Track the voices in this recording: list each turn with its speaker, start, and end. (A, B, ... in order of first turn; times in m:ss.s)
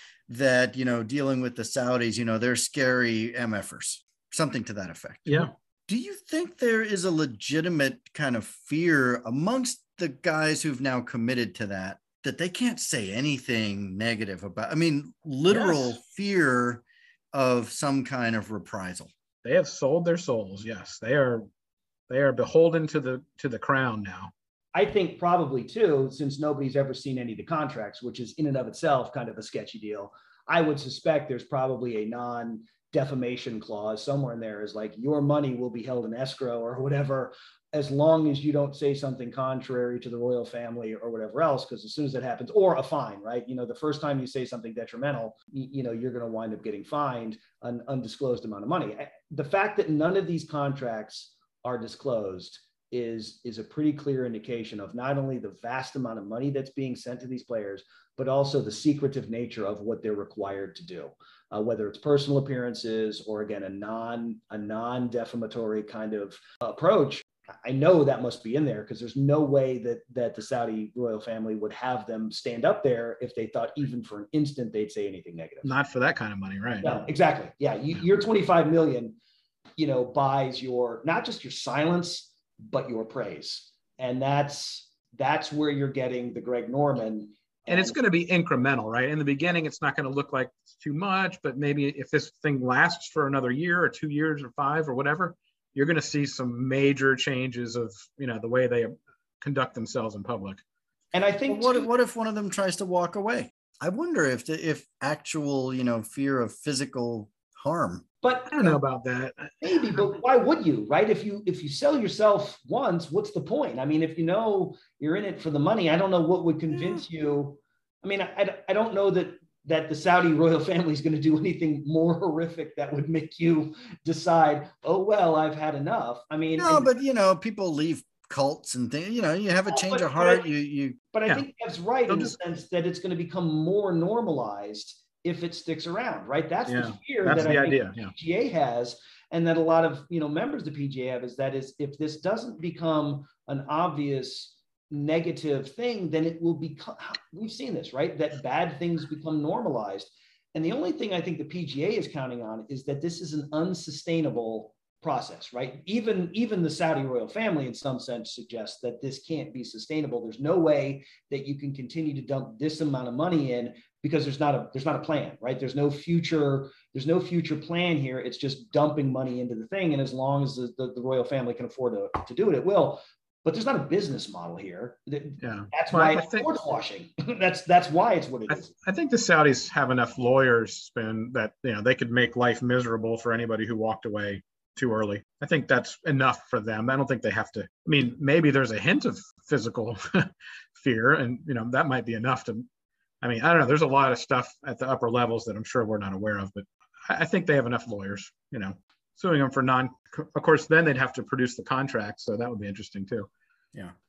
0:00.3-0:19.1 A
0:19.4-0:21.4 B
0:22.1-0:24.3 B
0:24.8-1:15.7 C
1:15.6-1:17.0 B
1:16.8-1:19.1 C
1:19.8-1:28.0 C
1:27.7-1:40.6 B
1:41.1-1:41.9 C
1:41.5-1:48.0 A
1:48.2-1:48.8 C
1:48.5-1:50.0 B
1:49.6-2:06.9 C
1:56.7-1:57.0 A
2:06.5-2:11.0 A
2:09.7-2:10.5 C
2:11.1-2:58.7 C
2:12.1-2:12.4 B
2:16.7-2:18.1 B
2:55.4-2:56.5 B
2:58.5-3:12.7 B
3:13.2-3:23.3 B